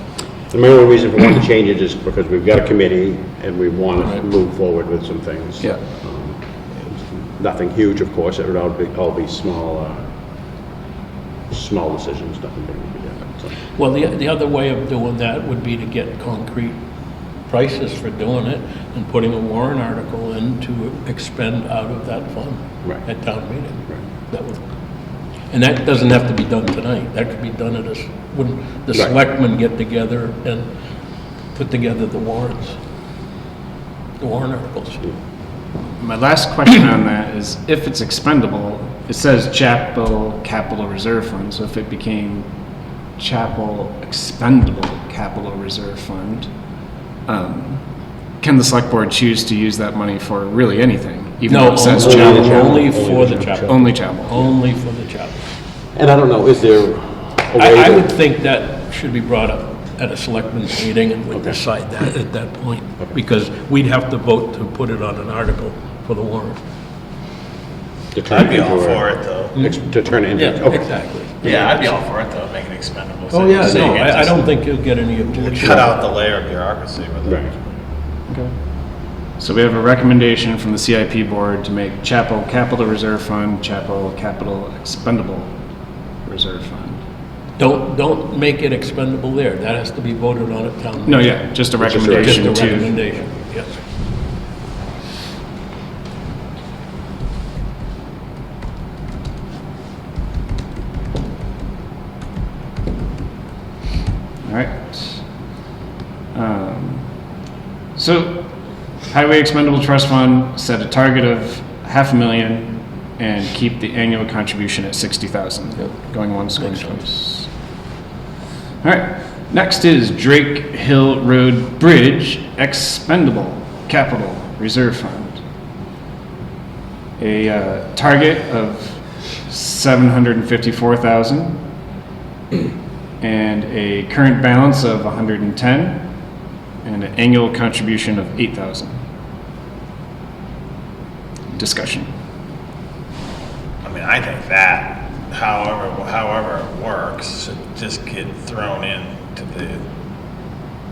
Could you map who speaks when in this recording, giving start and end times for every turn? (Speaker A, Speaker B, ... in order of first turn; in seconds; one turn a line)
Speaker A: 0.5-10.0
Speaker A: 11.5-13.5
Speaker B: 13.7-16.8
Speaker B: 17.4-24.6
Speaker B: 25.5-30.7
Speaker B: 31.5-32.8
Speaker B: 34.2-35.0
Speaker C: 36.0-42.5
Speaker C: 43.2-46.5
Speaker C: 47.3-47.8
Speaker C: 48.4-52.9
Speaker B: 51.5-55.4
Speaker A: 51.8-53.9
Speaker C: 53.6-54.4
Speaker A: 55.9-58.1
Speaker B: 57.5-66.6
Speaker A: 61.3-61.6
Speaker A: 68.1-71.8
Speaker D: 68.3-69.6
Speaker B: 70.3-71.3
Speaker D: 71.4-74.6
Speaker B: 73.3-76.0
Speaker A: 73.7-74.0
Speaker D: 75.4-77.8
Speaker C: 79.4-85.5
Speaker C: 86.2-87.0
Speaker B: 87.6-93.7
Speaker C: 91.0-93.0
Speaker A: 91.8-92.8
Speaker C: 104.4-105.2
Speaker C: 106.3-107.1
Speaker C: 107.9-108.5
Speaker C: 109.1-117.5
Speaker B: 116.5-117.1
Speaker C: 118.8-125.4
Speaker C: 127.2-131.6
Speaker C: 133.2-136.1
Speaker C: 136.8-138.9
Speaker C: 141.5-142.1
Speaker D: 143.8-149.8